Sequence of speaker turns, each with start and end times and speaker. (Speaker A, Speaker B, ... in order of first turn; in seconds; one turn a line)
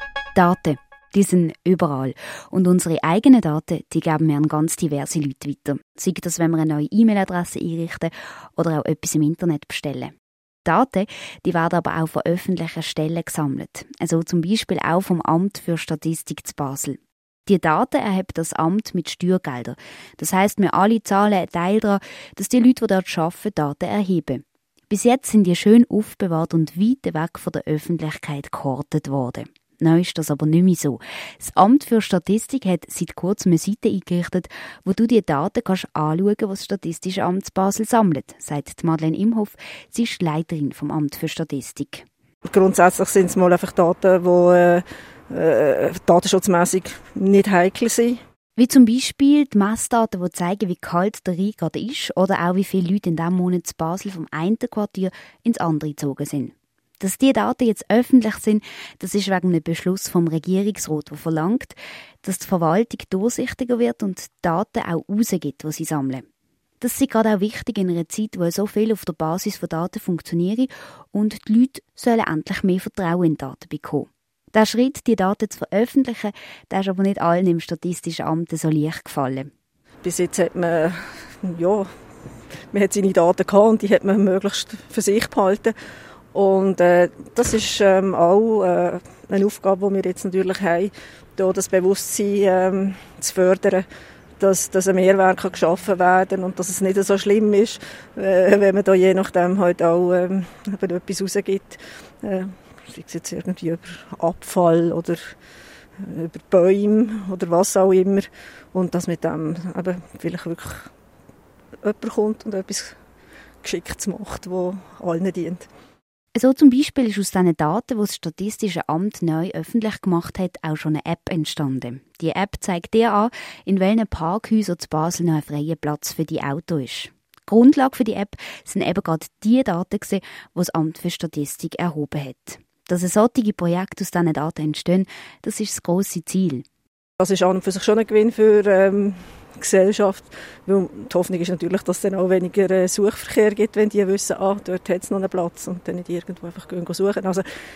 Speaker A: 0.3-10.1
Speaker A: 10.6-42.0
Speaker B: 42.5-48.2
Speaker A: 48.6-66.2
Speaker A: 66.8-79.5
Speaker B: 80.0-81.9
Speaker B: 82.7-85.7
Speaker B: 86.3-93.8
Speaker B: 94.4-105.3
Speaker B: 106.0-110.9
Speaker B: 111.8-113.0
Speaker B: 113.6-115.7
Speaker A: 116.3-136.6
Speaker B: 137.2-147.4